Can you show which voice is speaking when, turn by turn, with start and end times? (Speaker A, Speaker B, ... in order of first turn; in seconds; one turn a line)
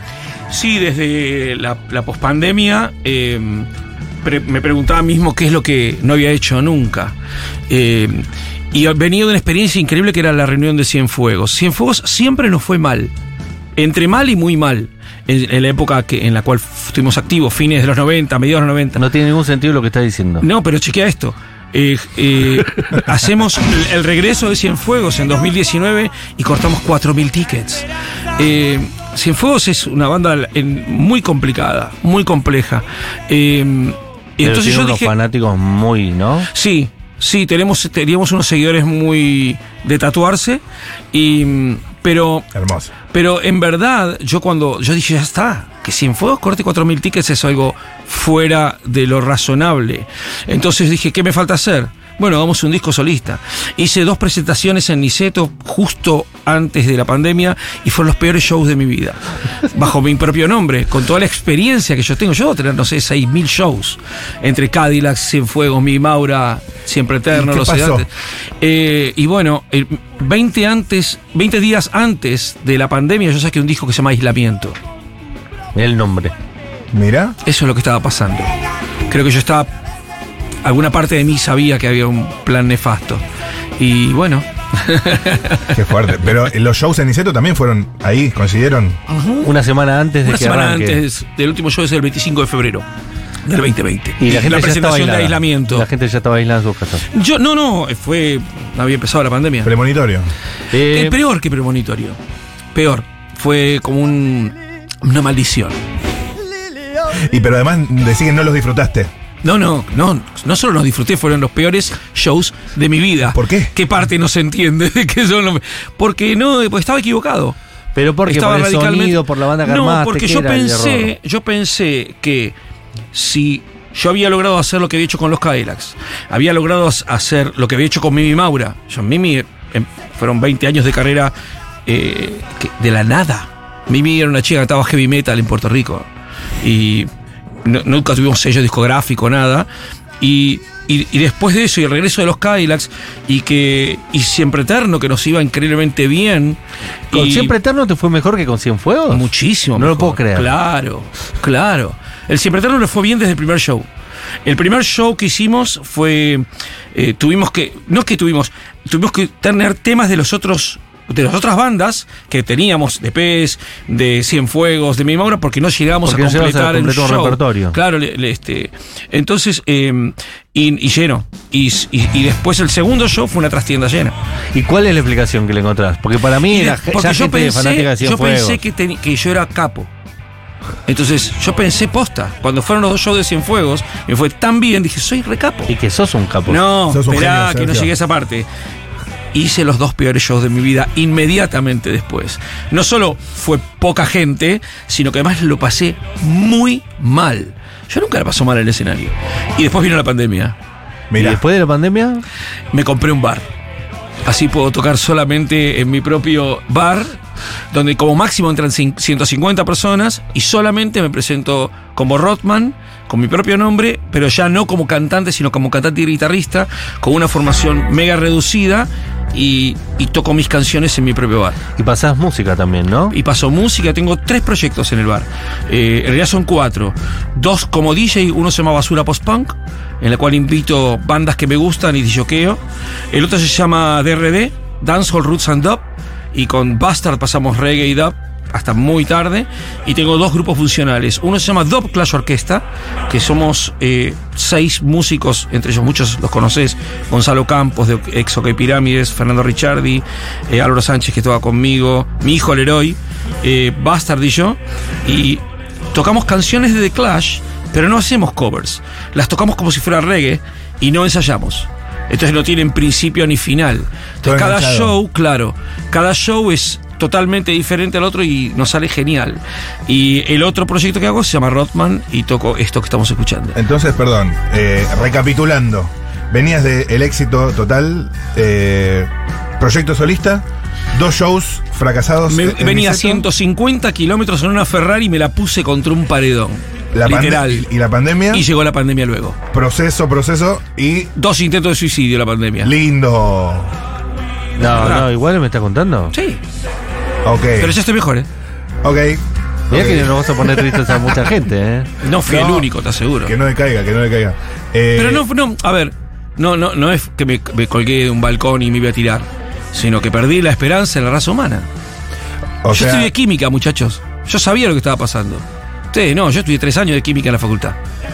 Speaker A: 0.5-3.7
Speaker A: 4.2-7.1
Speaker A: 7.7-13.1
Speaker A: 13.8-19.0
Speaker B: 18.9-20.4
Speaker A: 20.4-35.1
Speaker B: 34.4-36.5
Speaker A: 36.5-42.5
Speaker C: 42.5-42.9
Speaker A: 43.1-68.1
Speaker C: 67.3-68.0
Speaker A: 68.6-74.8
Speaker B: 75.7-76.3
Speaker C: 76.9-77.4
Speaker A: 77.4-78.5
Speaker A: 79.1-79.7
Speaker A: 80.6-83.2
Speaker A: 83.8-85.8
Speaker C: 85.7-89.0
Speaker A: 89.1-89.5
Speaker B: 89.4-91.0
Speaker A: 90.2-92.8
Speaker A: 93.5-95.9
Speaker B: 94.2-97.0
Speaker A: 97.1-99.7
Speaker C: 99.6-100.3
Speaker B: 100.7-101.2
Speaker A: 100.8-102.2
Speaker A: 102.7-105.8
Speaker C: 107.1-109.1
Speaker A: 109.4-117.5
Speaker C: 113.3-113.7
Speaker B: 117.9-121.1
Speaker A: 118.3-122.5
Speaker A: 123.1-131.3
Speaker A: 131.8-136.1
Speaker A: 136.6-137.1
Speaker A: 137.6-139.7
Speaker A: 140.2-146.6
Speaker A: 147.1-147.5
Speaker B: 147.1-150.5
Speaker A: 149.1-153.9
Speaker A: 154.4-174.1
Speaker B: 166.0-167.8
Speaker B: 174.5-178.6
Speaker A: 176.5-179.9
Speaker A: 180.8-185.7
Speaker B: 185.7-186.6
Speaker A: 186.5-188.5
Speaker C: 186.9-187.9
Speaker A: 189.3-200.6
Speaker C: 201.1-201.4
Speaker B: 201.2-202.2
Speaker A: 202.7-203.4
Speaker A: 204.2-207.2
Speaker A: 207.7-221.6
Speaker B: 221.8-223.2
Speaker A: 223.1-232.6
Speaker A: 233.1-273.6
Speaker C: 264.2-265.0
Speaker C: 273.5-283.2
Speaker A: 282.3-287.7
Speaker C: 286.9-288.4
Speaker A: 288.3-289.4
Speaker C: 289.5-291.1
Speaker A: 291.1-292.7
Speaker C: 292.6-293.7
Speaker B: 294.6-296.1
Speaker A: 294.7-295.1
Speaker A: 296.1-296.4
Speaker C: 297.2-297.7
Speaker A: 297.6-298.3
Speaker C: 298.8-300.1
Speaker B: 299.7-301.9
Speaker A: 302.0-303.4
Speaker C: 302.2-302.7
Speaker C: 303.2-305.2
Speaker A: 304.9-311.7
Speaker C: 312.6-313.1
Speaker A: 312.7-317.8